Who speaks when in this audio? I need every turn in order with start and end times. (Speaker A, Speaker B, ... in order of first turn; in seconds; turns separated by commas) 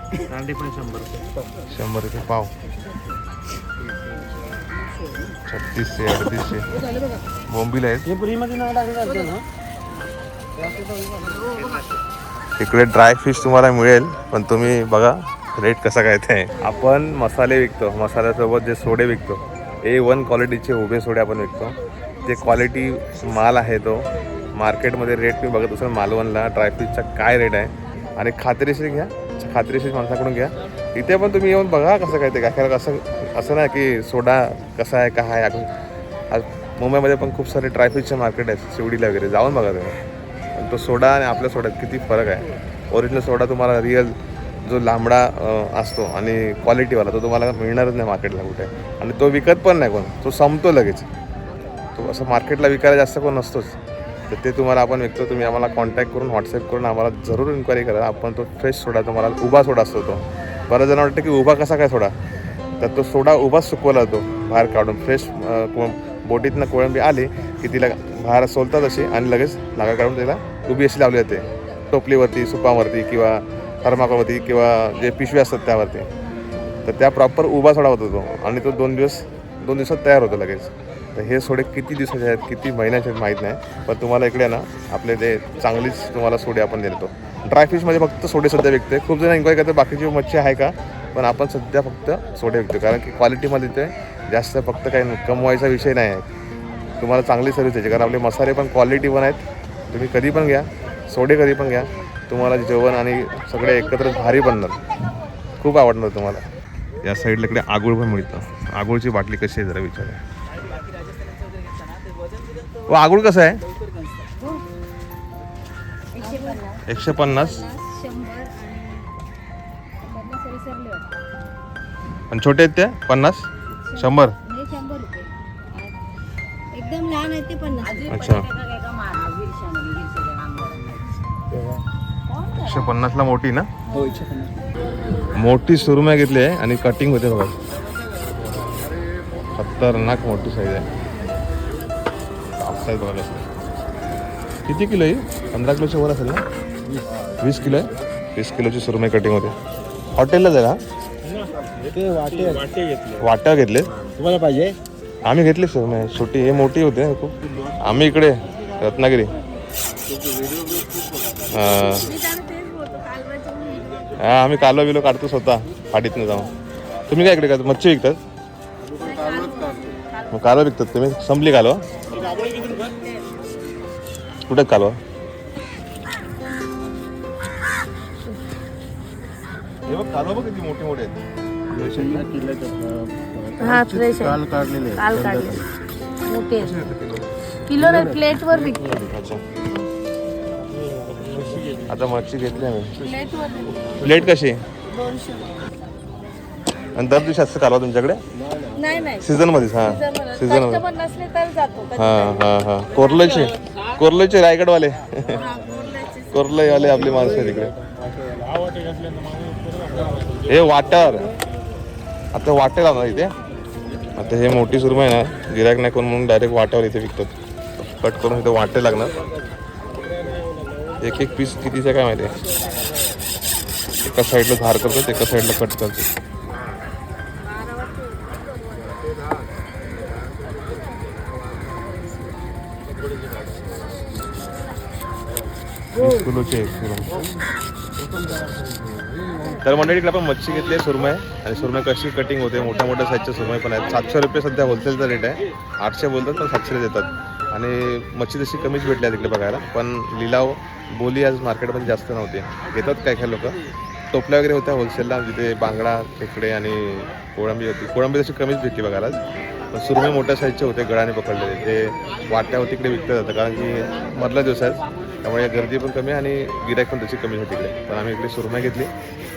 Speaker A: 0.3-1.2, Speaker B: 1.7-2.5, Speaker B: 5.5-6.8, Speaker B: 7.5-8.1, Speaker A: 8.1-9.4, Speaker B: 12.6-35.7, Speaker B: 36.3-40.0, Speaker B: 40.5-51.0, Speaker B: 51.9-53.7, Speaker B: 54.3-62.1, Speaker B: 62.8-76.1, Speaker B: 76.8-96.2, Speaker B: 97.0-104.8, Speaker B: 105.6-106.4, Speaker B: 107.0-110.2, Speaker B: 112.9-113.6, Speaker C: 116.1-119.1, Speaker B: 116.9-117.7, Speaker C: 120.0-121.1, Speaker B: 122.3-124.3, Speaker C: 123.8-125.9, Speaker C: 126.7-131.0, Speaker B: 128.1-128.5, Speaker C: 132.3-132.9, Speaker B: 132.6-133.7, Speaker B: 135.4-137.5, Speaker B: 139.5-140.8, Speaker B: 142.6-143.4, Speaker B: 144.7-146.4, Speaker B: 147.4-149.5, Speaker B: 150.2-150.8, Speaker A: 151.8-153.0, Speaker B: 153.2-153.9, Speaker A: 154.2-154.7, Speaker B: 155.2-159.3, Speaker A: 160.4-160.6, Speaker B: 161.5-162.1, Speaker C: 161.8-164.1, Speaker B: 164.2-166.5, Speaker B: 167.1-168.2, Speaker C: 169.0-169.9, Speaker B: 170.3-171.8, Speaker C: 172.2-173.0, Speaker B: 174.5-175.0, Speaker B: 179.9-181.2, Speaker B: 181.7-182.3, Speaker A: 181.9-185.6, Speaker C: 183.6-184.4, Speaker C: 184.9-185.6, Speaker C: 186.3-186.6, Speaker B: 186.5-187.2, Speaker C: 187.7-188.9, Speaker A: 187.8-189.0, Speaker B: 189.0-189.4, Speaker A: 191.1-191.7, Speaker B: 191.9-193.0, Speaker C: 193.0-194.2, Speaker B: 194.0-194.6, Speaker C: 194.9-195.6, Speaker B: 196.9-198.2, Speaker C: 198.8-199.2, Speaker B: 199.2-200.8, Speaker C: 199.9-202.1, Speaker B: 201.9-205.5, Speaker C: 205.4-206.3, Speaker B: 206.3-207.8, Speaker A: 208.7-210.3, Speaker B: 210.4-211.3, Speaker B: 212.3-213.3, Speaker B: 214.2-219.1, Speaker B: 221.0-222.3, Speaker B: 224.0-226.1, Speaker B: 235.9-237.1, Speaker B: 239.6-253.6, Speaker B: 254.1-259.2, Speaker B: 259.7-268.9